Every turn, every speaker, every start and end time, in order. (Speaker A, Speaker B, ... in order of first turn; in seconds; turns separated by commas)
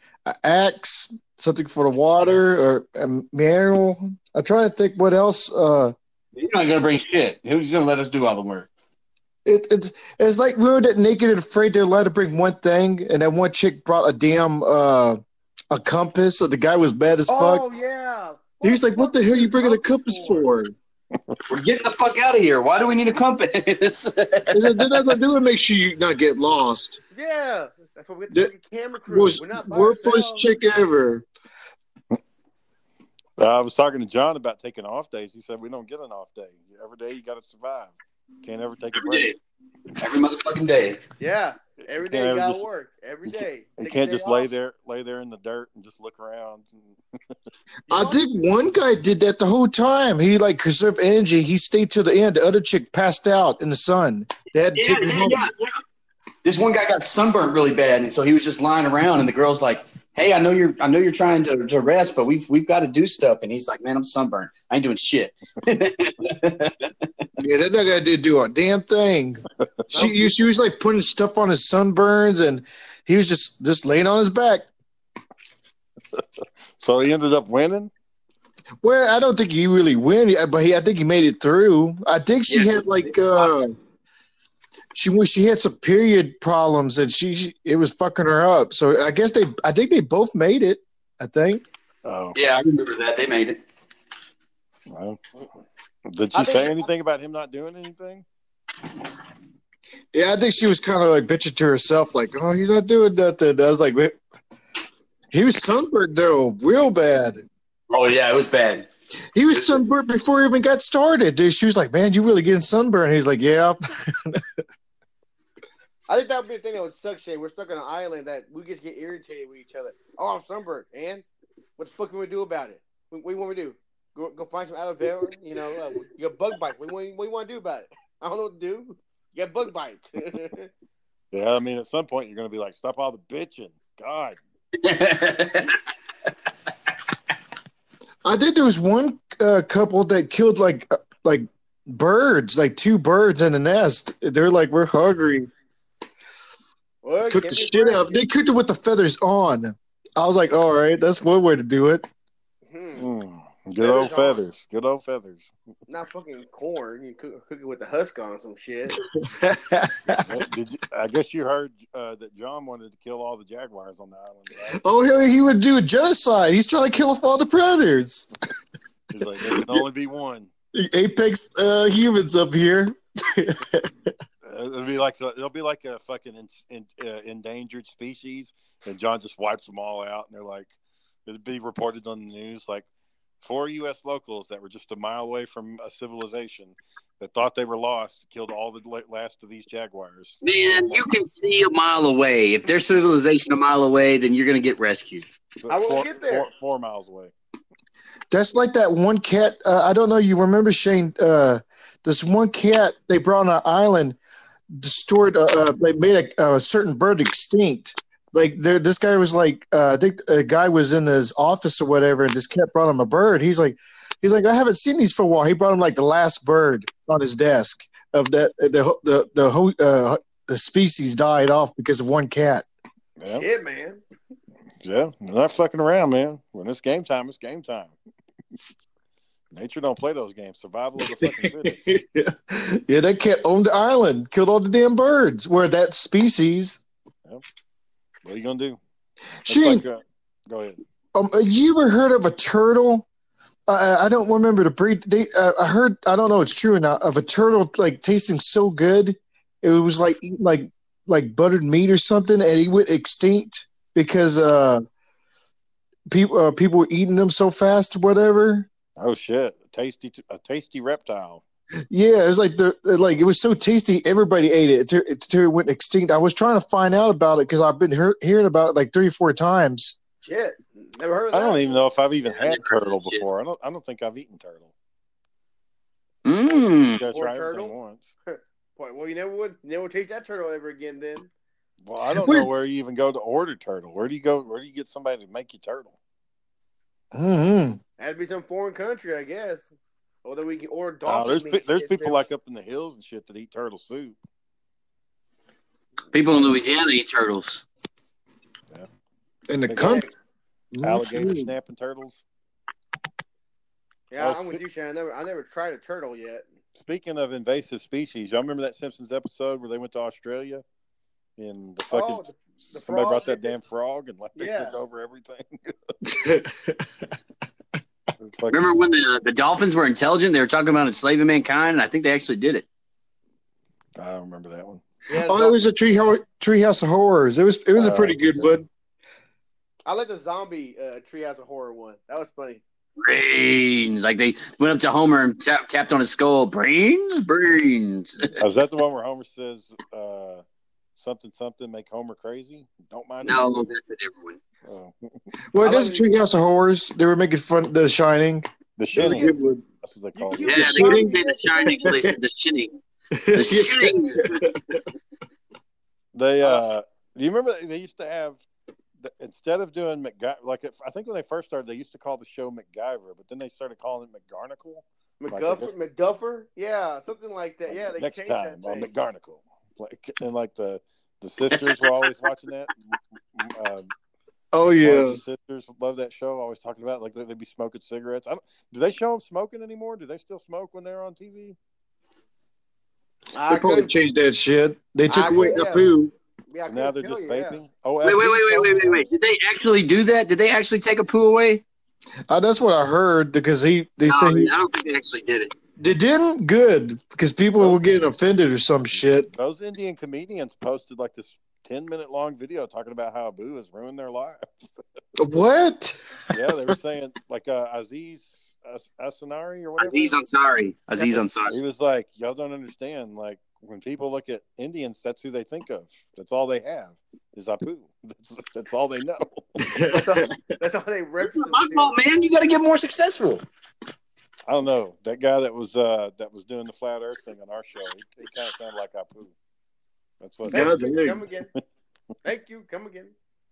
Speaker A: 0.2-5.9, Speaker B: 6.3-8.7, Speaker A: 9.4-15.2, Speaker A: 15.7-17.6, Speaker C: 17.3-20.4, Speaker A: 18.6-20.7, Speaker B: 21.5-25.1, Speaker A: 24.5-27.0, Speaker C: 27.1-30.5, Speaker A: 29.1-31.3, Speaker D: 33.4-39.4, Speaker B: 38.9-39.3, Speaker B: 40.0-41.0, Speaker C: 41.2-44.5, Speaker D: 42.0-42.6, Speaker D: 43.8-47.0, Speaker A: 47.9-55.5, Speaker C: 47.9-48.2, Speaker B: 54.8-55.7, Speaker B: 56.4-66.9, Speaker A: 67.4-69.4, Speaker C: 69.9-70.3, Speaker A: 69.9-74.7, Speaker D: 76.8-77.9, Speaker A: 78.8-83.7, Speaker B: 82.5-83.5, Speaker A: 84.9-91.6, Speaker D: 92.0-92.3, Speaker B: 92.3-93.6, Speaker D: 94.9-95.2, Speaker D: 96.1-98.2, Speaker C: 96.3-96.9, Speaker A: 100.1-104.2, Speaker A: 105.3-107.4, Speaker B: 107.9-108.9, Speaker A: 109.3-114.4, Speaker C: 116.1-121.2, Speaker C: 121.8-130.7, Speaker D: 131.3-134.4, Speaker B: 134.8-135.8, Speaker A: 138.2-145.5, Speaker C: 147.0-148.2, Speaker A: 147.2-152.1, Speaker C: 152.7-153.1, Speaker D: 153.0-155.5, Speaker C: 153.8-154.4, Speaker C: 155.9-159.0, Speaker A: 159.2-160.4, Speaker D: 160.2-164.8, Speaker A: 164.7-168.3, Speaker D: 169.1-170.5, Speaker A: 169.4-169.8, Speaker A: 170.7-173.9, Speaker D: 174.4-180.7, Speaker D: 181.2-182.8, Speaker D: 183.4-191.0, Speaker B: 190.4-195.2, Speaker D: 195.6-197.3, Speaker C: 195.7-196.4, Speaker A: 198.3-204.2, Speaker A: 204.7-222.7, Speaker D: 223.2-223.4, Speaker C: 223.3-224.0, Speaker D: 224.8-227.9, Speaker D: 229.5-231.9, Speaker A: 231.2-236.8, Speaker D: 238.2-238.8, Speaker A: 239.4-239.8, Speaker D: 239.5-240.8, Speaker A: 241.1-243.1, Speaker A: 243.7-254.8, Speaker A: 256.1-258.7, Speaker D: 259.0-261.4, Speaker A: 261.9-269.9, Speaker C: 270.2-271.8, Speaker D: 271.3-274.7, Speaker B: 272.3-273.2, Speaker B: 276.2-277.0, Speaker D: 276.9-278.1, Speaker C: 277.1-277.7, Speaker C: 278.3-281.3, Speaker D: 281.8-285.9, Speaker A: 282.1-282.5, Speaker A: 287.1-287.8, Speaker C: 288.0-289.7, Speaker C: 290.2-292.2, Speaker D: 291.1-294.2, Speaker B: 296.1-297.6, Speaker A: 299.5-300.1, Speaker D: 299.7-300.0, Speaker C: 299.8-300.1, Speaker A: 300.7-301.5, Speaker D: 300.8-302.2, Speaker C: 304.1-306.4, Speaker D: 304.2-304.6, Speaker D: 306.7-310.6, Speaker D: 311.4-315.9, Speaker C: 311.9-313.6, Speaker C: 314.3-314.7, Speaker A: 316.1-316.8, Speaker D: 318.2-318.9, Speaker B: 318.5-322.6, Speaker D: 323.9-324.8, Speaker C: 325.1-325.6, Speaker A: 325.2-328.6, Speaker D: 327.7-328.6, Speaker C: 329.9-332.6, Speaker B: 333.0-338.4, Speaker D: 338.4-340.4, Speaker D: 341.0-343.7, Speaker B: 343.2-344.4, Speaker D: 344.6-345.1, Speaker A: 345.5-349.6, Speaker C: 345.6-346.1, Speaker D: 348.8-350.9, Speaker C: 348.9-349.4, Speaker C: 350.1-351.9, Speaker B: 350.4-352.8, Speaker A: 350.5-352.1, Speaker A: 353.1-354.8, Speaker B: 353.3-354.6, Speaker D: 356.1-358.4, Speaker D: 359.0-365.7, Speaker C: 365.2-368.9, Speaker D: 367.7-373.9, Speaker A: 374.5-375.2, Speaker D: 374.8-381.6, Speaker C: 383.3-383.9, Speaker A: 383.5-386.1, Speaker C: 385.1-385.9, Speaker C: 386.5-387.6, Speaker D: 386.6-389.1, Speaker B: 388.0-391.6, Speaker A: 392.3-394.5, Speaker B: 394.1-395.5, Speaker A: 395.8-399.3, Speaker D: 397.6-397.8, Speaker D: 398.9-404.4, Speaker A: 405.2-406.7, Speaker D: 406.3-410.2, Speaker B: 409.8-411.6, Speaker D: 411.0-419.6, Speaker A: 419.6-420.2, Speaker C: 419.9-421.9, Speaker B: 421.2-423.4, Speaker D: 424.4-429.3, Speaker D: 430.2-431.0, Speaker C: 430.5-431.5, Speaker A: 430.5-431.2, Speaker C: 432.2-433.1